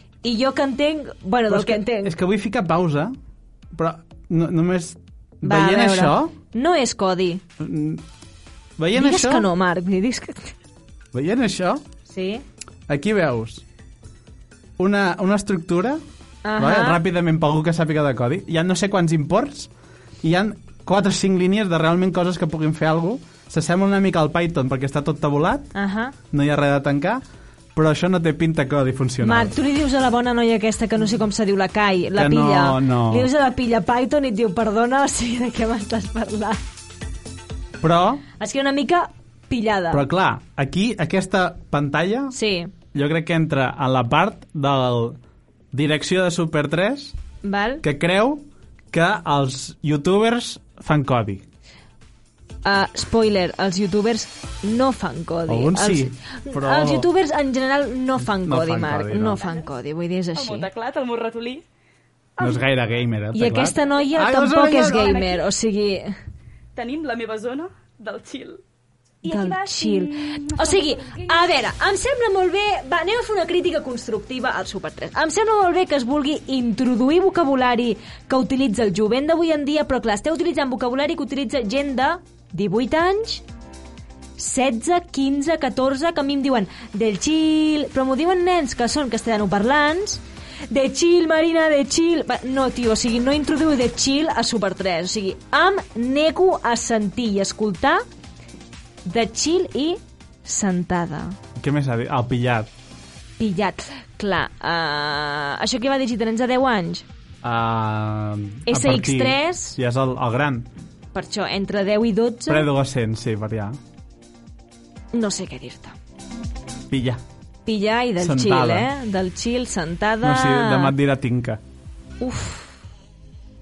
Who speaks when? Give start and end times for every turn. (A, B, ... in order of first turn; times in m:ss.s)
0:00.2-0:02.1 A
0:01.5-0:03.1 B
0:03.7-0:06.3 B
0:05.4-0:07.4 A
0:07.6-0:08.0 B
0:08.8-0:09.5 B
0:08.9-0:10.5 A
0:11.1-0:11.8 B
0:12.1-0:12.4 A
0:12.9-0:13.6 B
0:14.8-0:16.0 B
0:16.4-0:17.0 A
0:16.6-0:19.7 B
0:20.2-0:25.7 B
0:25.7-0:26.1 A
0:26.3-0:27.2 B
0:27.7-0:29.5 B
0:29.2-0:36.6 A
0:32.1-0:33.3 B
0:37.8-0:38.2 B
0:38.4-0:40.0 A
0:39.9-0:42.3 B
0:42.3-0:42.7 A
0:42.9-0:45.2 B
0:45.7-0:47.2 B
0:47.4-0:47.8 A
0:47.8-0:51.4 B
0:52.6-1:00.7 A
0:55.5-0:57.1 B
0:58.2-0:59.4 B
1:00.4-1:01.6 C
1:02.4-1:05.2 B
1:03.3-1:06.1 A
1:04.7-1:05.4 C
1:06.7-1:08.6 C
1:09.2-1:11.4 C
1:09.2-1:23.4 A
1:24.4-1:38.0 A
1:39.0-1:41.4 A
1:41.6-1:42.7 B
1:43.4-1:47.0 A
1:47.4-1:50.7 B
1:48.7-1:49.8 A
1:51.1-1:52.7 A
1:52.5-1:53.8 B
1:55.1-1:55.9 A
1:56.9-1:57.2 B
1:57.6-2:00.9 A
1:58.2-1:58.9 B
2:00.2-2:01.6 B
2:02.2-2:02.8 A